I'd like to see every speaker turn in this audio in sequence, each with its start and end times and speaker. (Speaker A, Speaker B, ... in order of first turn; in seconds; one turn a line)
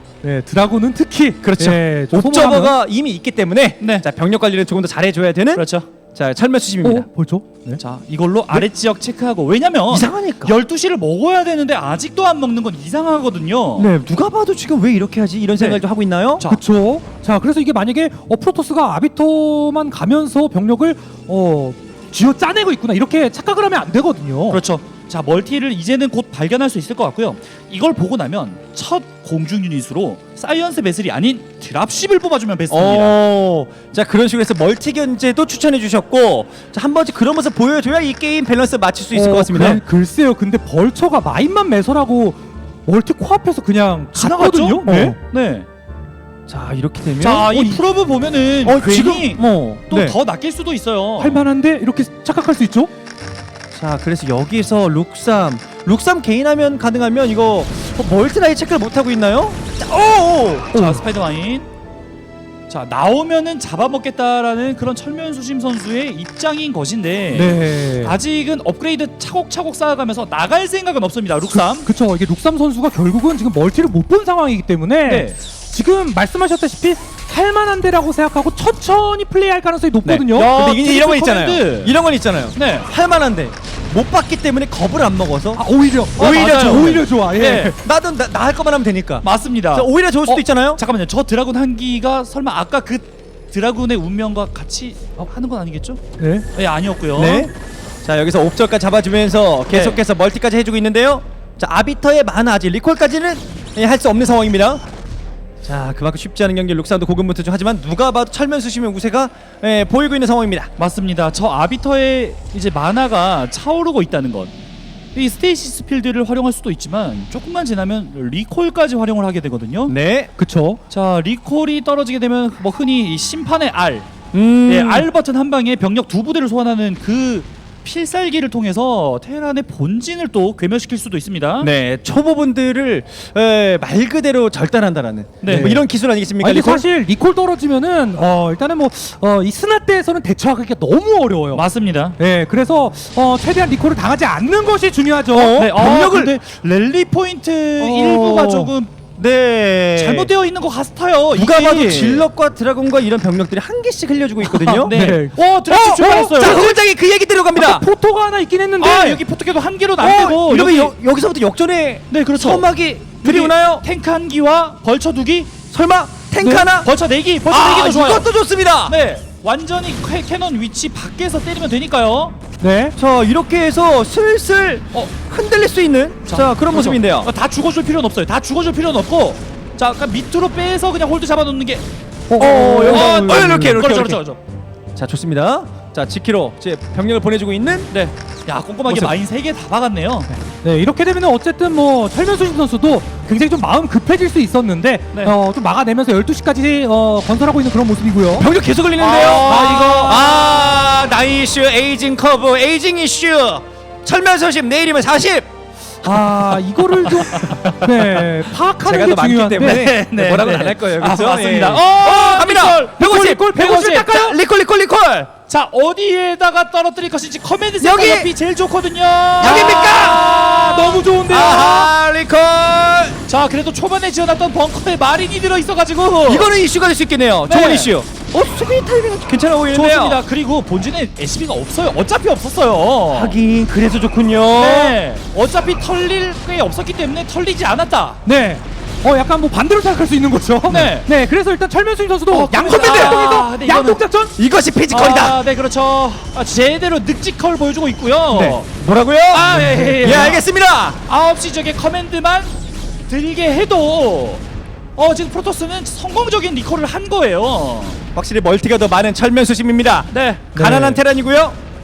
Speaker A: 0.2-2.8
Speaker B: 1.4-7.1
Speaker C: 3.8-4.0
Speaker C: 5.5-5.8
Speaker A: 6.8-7.8
Speaker C: 7.8-13.9
Speaker B: 9.9-10.6
Speaker B: 13.8-16.4
Speaker A: 16.4-24.6
Speaker C: 24.5-33.1
Speaker B: 32.7-39.8
Speaker A: 39.1-45.2
Speaker C: 44.1-45.6
Speaker B: 44.9-45.2
Speaker B: 46.5-47.5
Speaker C: 47.2-51.4
Speaker A: 47.5-47.8
Speaker B: 48.6-50.2
Speaker A: 51.2-52.9
Speaker B: 53.7-60.7
Speaker C: 60.7-61.7
Speaker A: 60.7-61.0
Speaker C: 62.7-71.9
Speaker A: 67.3-68.2
Speaker A: 71.5-80.5
Speaker C: 75.0-75.3
Speaker B: 80.0-85.6
Speaker C: 80.3-81.9
Speaker C: 82.5-82.9
Speaker A: 85.5-87.8
Speaker B: 86.2-87.0
Speaker C: 86.2-87.7
Speaker B: 87.8-90.8
Speaker C: 89.2-96.0
Speaker A: 96.2-96.5
Speaker C: 96.5-97.5
Speaker B: 97.1-97.5
Speaker B: 98.0-104.8
Speaker C: 99.7-100.0
Speaker B: 105.6-110.7
Speaker C: 110.8-114.5
Speaker C: 115.1-119.9
Speaker B: 119.9-120.3
Speaker A: 120.4-120.8
Speaker C: 120.9-124.1
Speaker B: 124.3-125.1
Speaker C: 124.7-131.7
Speaker B: 131.6-136.8
Speaker C: 135.4-135.7
Speaker A: 135.4-135.8
Speaker A: 136.4-141.6
Speaker C: 141.5-142.2
Speaker A: 142.2-145.6
Speaker B: 145.3-146.3
Speaker C: 145.5-148.9
Speaker B: 147.8-150.3
Speaker C: 150.0-152.2
Speaker B: 151.3-154.9
Speaker A: 154.4-156.8
Speaker C: 154.8-156.6
Speaker B: 155.7-157.8
Speaker A: 157.5-159.2
Speaker C: 158.8-160.9
Speaker B: 160.0-163.8
Speaker C: 162.1-162.7
Speaker C: 163.2-165.5
Speaker B: 165.7-166.9
Speaker A: 166.4-166.7
Speaker C: 166.8-168.3
Speaker B: 167.5-168.9
Speaker C: 168.9-172.3
Speaker A: 172.6-172.9
Speaker B: 173.0-177.3
Speaker C: 176.3-181.8
Speaker A: 182.3-183.9
Speaker B: 182.4-184.2
Speaker C: 182.9-184.4
Speaker B: 184.9-187.9
Speaker C: 187.9-190.3
Speaker B: 188.9-189.1
Speaker A: 190.6-198.5
Speaker B: 198.4-205.5
Speaker C: 199.0-200.5
Speaker A: 199.5-200.0
Speaker A: 206.0-209.8
Speaker B: 207.1-208.2
Speaker B: 208.8-215.3
Speaker C: 209.6-214.2
Speaker A: 213.0-214.4
Speaker C: 215.5-220.5
Speaker B: 217.8-218.3
Speaker B: 219.4-223.2
Speaker A: 219.4-221.9
Speaker C: 223.3-226.5
Speaker B: 226.2-230.2
Speaker C: 227.5-227.9
Speaker C: 229.7-233.3
Speaker B: 233.1-235.0
Speaker C: 234.6-238.2
Speaker A: 238.2-244.3
Speaker C: 240.7-241.1
Speaker C: 242.3-244.0
Speaker B: 242.6-243.2
Speaker B: 244.4-245.4
Speaker C: 244.9-248.6
Speaker B: 248.3-251.0
Speaker C: 249.3-250.4
Speaker A: 249.6-250.0
Speaker C: 251.1-252.5
Speaker C: 253.1-254.4
Speaker C: 255.0-258.0
Speaker B: 258.1-261.6
Speaker C: 260.1-260.4
Speaker A: 260.5-261.0